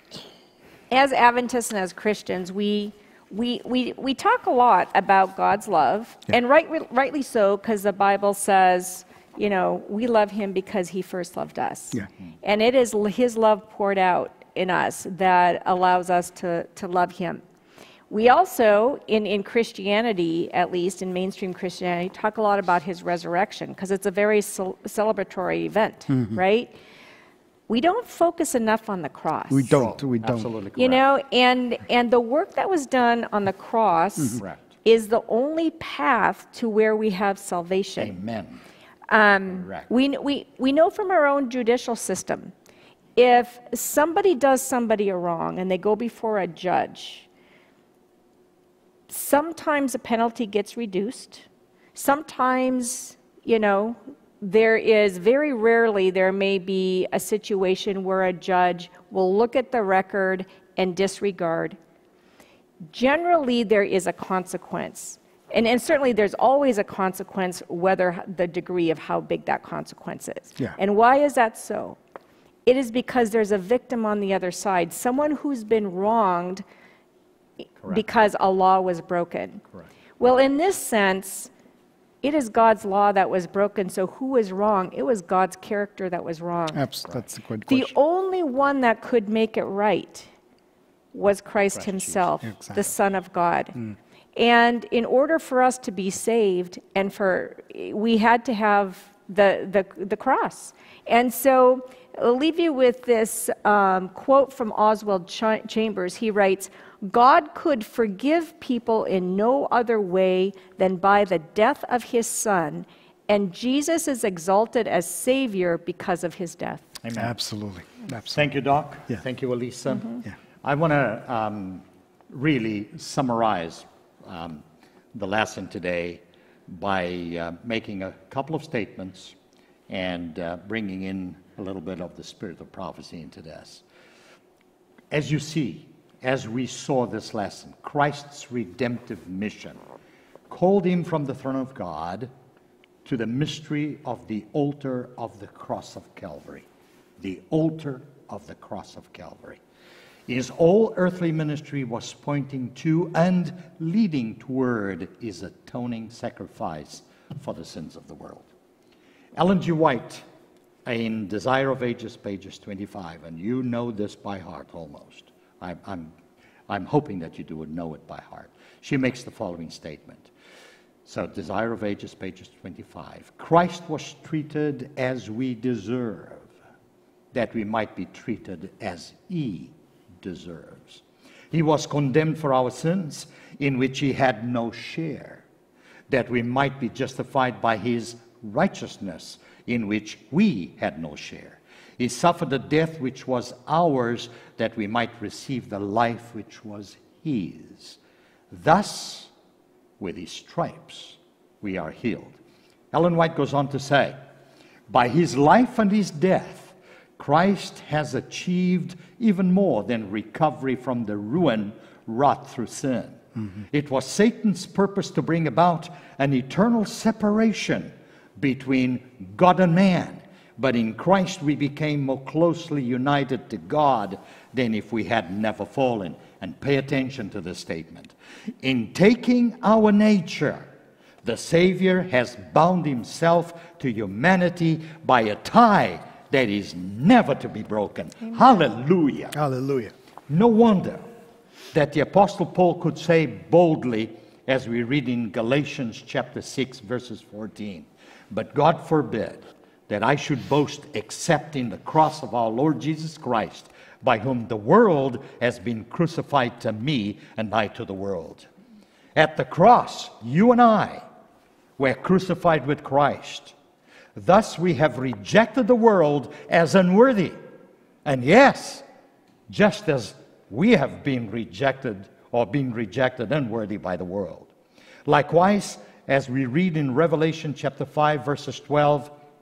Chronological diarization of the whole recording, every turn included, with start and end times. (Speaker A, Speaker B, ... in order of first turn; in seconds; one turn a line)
Speaker A: 0.9-17.4
Speaker A: 18.1-26.7
Speaker A: 27.7-29.8
Speaker B: 29.5-30.5
Speaker C: 29.7-31.0
Speaker A: 30.8-38.1
Speaker C: 34.4-34.6
Speaker C: 38.0-38.6
Speaker A: 39.1-42.5
Speaker C: 39.5-39.9
Speaker A: 43.1-47.3
Speaker A: 49.1-61.8
Speaker A: 62.9-72.0
Speaker A: 72.7-76.6
Speaker A: 77.9-79.6
Speaker A: 80.2-81.5
Speaker A: 82.2-86.8
Speaker B: 86.7-87.9
Speaker A: 87.7-90.3
Speaker A: 91.1-93.8
Speaker C: 91.7-92.3
Speaker B: 92.4-92.8
Speaker A: 94.3-116.9
Speaker C: 117.0-117.3
Speaker B: 117.2-118.4
Speaker C: 118.3-129.3
Speaker C: 129.9-133.8
Speaker C: 135.1-139.8
Speaker C: 140.5-142.3
Speaker C: 143.0-146.7
Speaker C: 147.2-149.6
Speaker C: 150.3-158.5
Speaker C: 159.3-160.2
Speaker C: 160.8-166.1
Speaker C: 166.7-170.3
Speaker C: 171.0-176.5
Speaker C: 177.3-185.4
Speaker C: 186.1-198.0
Speaker C: 198.5-199.3
Speaker C: 200.0-202.4
Speaker C: 202.9-204.2
Speaker C: 204.9-230.7
Speaker C: 231.2-239.3
Speaker B: 239.3-239.9
Speaker C: 240.3-241.1
Speaker C: 241.7-258.5
Speaker C: 259.1-261.0
Speaker C: 261.8-263.5
Speaker C: 264.1-267.4
Speaker C: 268.0-268.8
Speaker C: 269.5-274.5
Speaker C: 275.1-279.1